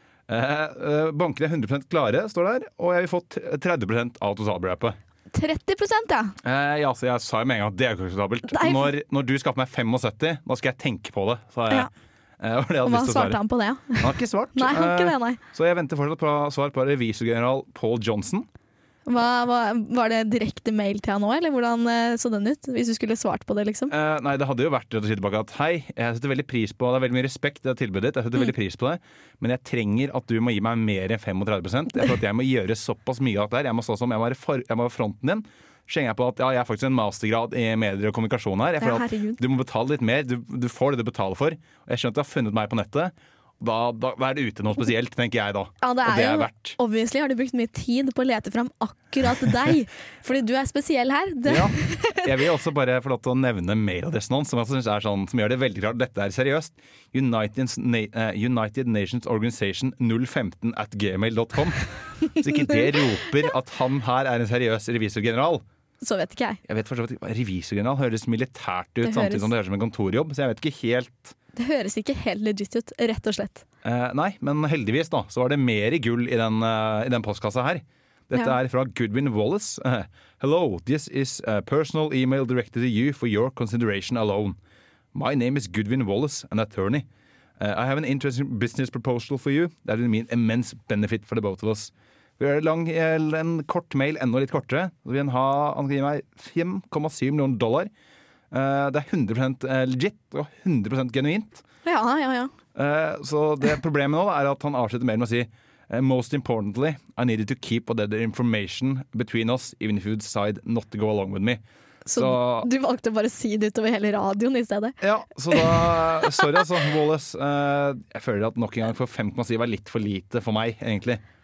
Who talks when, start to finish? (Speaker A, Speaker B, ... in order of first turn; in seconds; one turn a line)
Speaker A: 0.3-5.0
Speaker B: 5.3-6.3
Speaker A: 6.4-11.9
Speaker B: 8.5-8.9
Speaker A: 12.4-13.4
Speaker B: 12.8-15.4
Speaker A: 14.0-18.5
Speaker B: 19.1-23.9
Speaker A: 23.9-46.8
Speaker B: 38.8-39.4
Speaker B: 45.8-52.3
Speaker A: 51.5-65.6
Speaker B: 66.0-66.6
Speaker A: 66.7-71.3
Speaker B: 69.0-69.5
Speaker B: 71.5-73.6
Speaker A: 73.8-84.6
Speaker A: 85.1-87.1
Speaker A: 87.6-97.9
Speaker A: 98.5-101.6
Speaker B: 101.8-102.5
Speaker A: 102.7-111.6
Speaker B: 112.0-115.0
Speaker A: 112.1-112.7
Speaker A: 115.0-121.2
Speaker B: 115.5-116.0